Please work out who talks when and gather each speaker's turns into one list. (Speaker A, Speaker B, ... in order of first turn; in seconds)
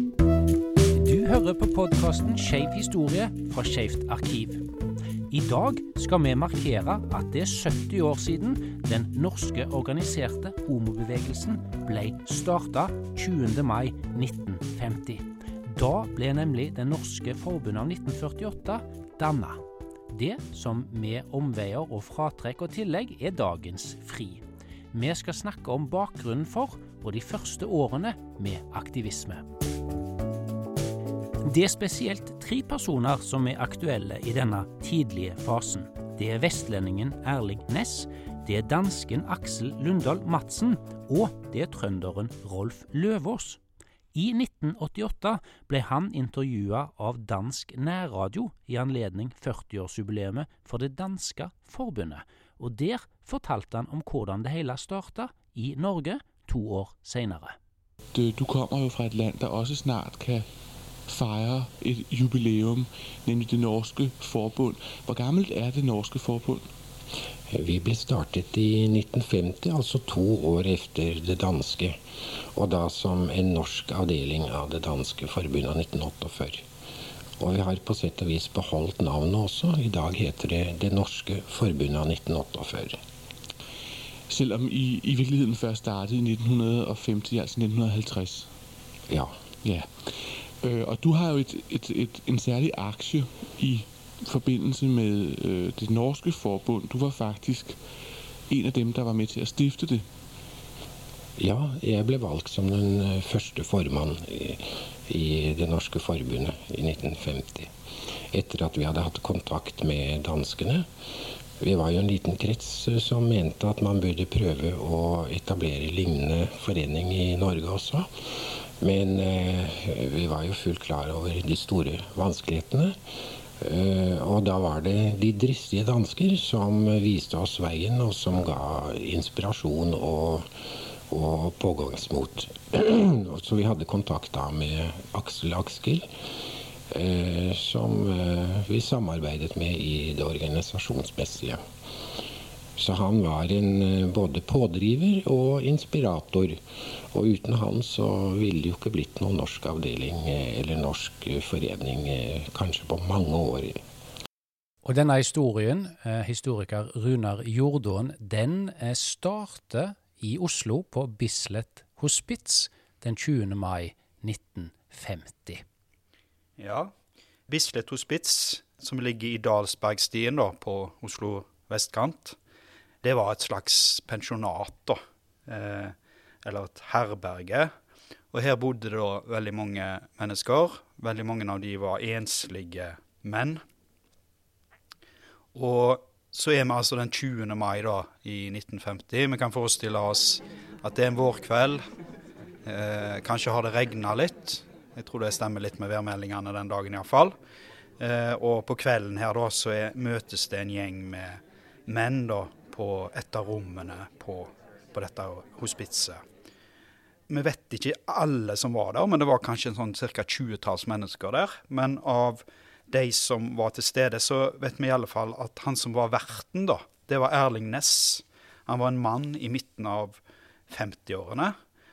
Speaker A: 0.9-4.6, 5.3-24.4, 24.9-29.4, 31.4-43.6, 44.1-57.5, 154.8-165.6
Speaker B: 58.1-60.5, 61.1-66.7, 84.3-88.5, 89.6-89.9, 90.6-97.8, 98.5-100.0
Speaker C: 67.5-72.0, 72.5-76.6, 77.4-83.0, 89.1-89.3, 101.4-107.7, 108.3-110.9, 111.6-123.0, 123.6-136.1, 136.9-141.6, 142.8-146.6, 147.1-153.8
Speaker D: 166.6-166.9, 167.5-172.4, 173.0-177.7, 178.3-183.6, 185.5-191.8, 192.6-197.3, 198.0-206.2, 207.3-221.5